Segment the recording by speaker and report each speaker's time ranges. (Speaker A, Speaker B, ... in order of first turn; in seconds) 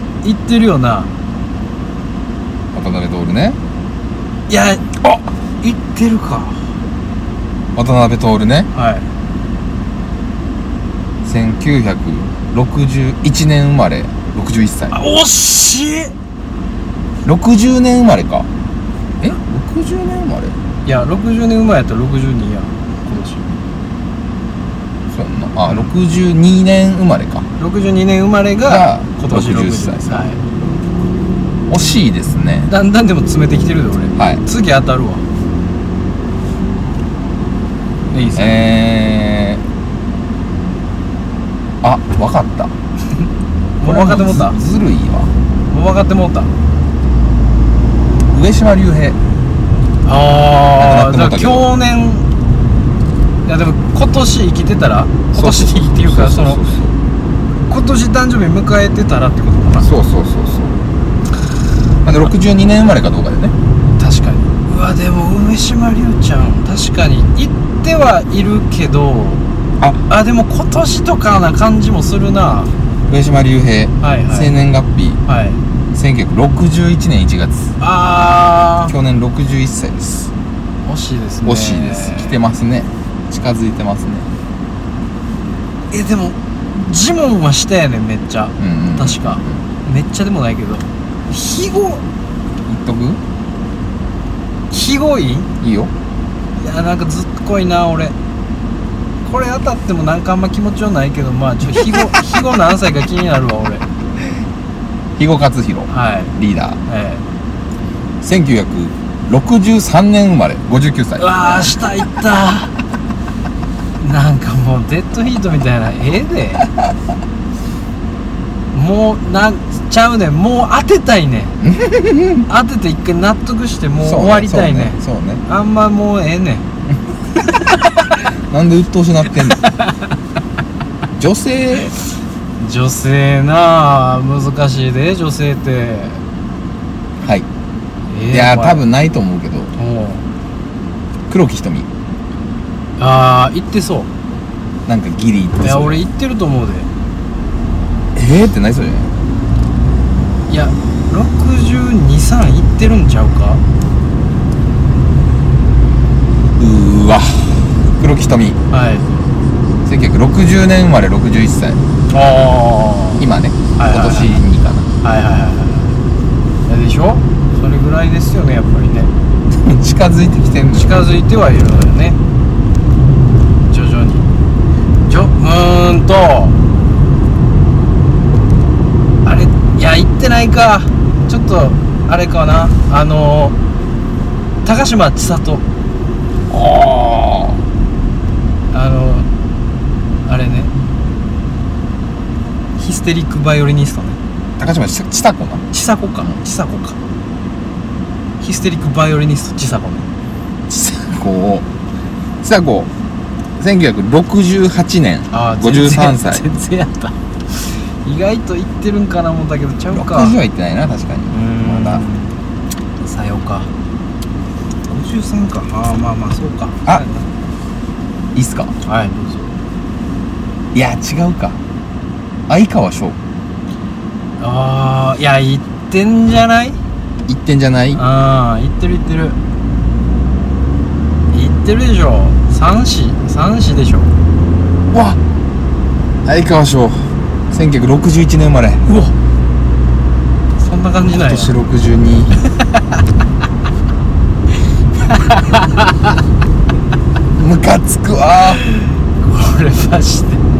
Speaker A: 0.2-1.1, 4.5-4.8, 5.6-6.7, 8.7-9.1, 14.9-16.1, 20.8-23.5, 27.6-30.4, 32.7-35.2, 38.1-38.6, 43.8-44.6, 45.7-46.5, 50.0-52.2, 53.4-56.6, 57.7-59.9, 64.0-69.4, 70.1-72.7, 74.0-74.5, 75.2-75.6, 77.8-78.9, 80.8-82.3, 85.9-92.0, 94.7-95.5, 96.6-98.1, 99.2-103.8, 105.9-106.3, 106.9-107.2, 111.2-112.7, 114.0-116.7, 118.7-121.6, 122.5-126.7, 129.6-129.9, 132.6-136.2, 138.1-138.8, 139.8-140.2, 143.0-144.1, 145.6-146.9, 150.5-153.6, 158.7-159.1, 162.1-163.2, 163.8-164.4, 165.0-166.0, 166.7-169.1, 170.7-172.2, 173.7-174.3, 175.1-176.6, 179.2-183.6, 184.6-185.6, 188.7-189.3, 190.2-190.7, 192.8-194.2, 195.7-197.0, 198.4-200.1, 205.3-210.3, 211.3-212.3, 213.0-213.7, 214.9-217.2, 218.8-219.5, 224.4-226.8, 227.9-229.4, 231.3-234.1, 238.8-239.1, 240.6-241.5, 245.0-246.1, 248.5-250.4
Speaker B: 2.7-3.6, 7.8-8.7, 11.2-14.9, 17.2-18.5, 19.2-20.5, 25.1-27.4, 28.6-30.3, 31.7-32.7, 34.2-34.4, 38.4-39.6, 41.8-42.7, 43.8-45.3, 48.3-49.2, 50.8-51.7, 55.3-57.0, 59.8-60.8, 62.0-63.5, 73.1-75.2, 75.9-77.7, 78.9-80.3, 81.4-84.3, 88.6-89.6, 92.7-93.2, 95.6-95.9, 105.2-106.8, 108.2-111.8, 121.6-122.5, 124.0-125.4, 128.5-129.6, 131.2-131.9, 137.2-137.5, 138.3-139.7, 141.3-141.9, 144.8-146.0, 148.1-149.1, 156.6-158.6, 159.8-161.8, 163.2-164.9, 169.5-171.0, 186.5-187.6, 194.6-195.6, 200.7-201.7, 202.4-202.9, 203.6-206.4, 209.9-212.0, 218.3-218.7, 220.7-221.6, 222.5-223.2, 227.3-228.0, 234.9-235.2, 236.2-238.8, 241.1-242.4, 247.3-248.6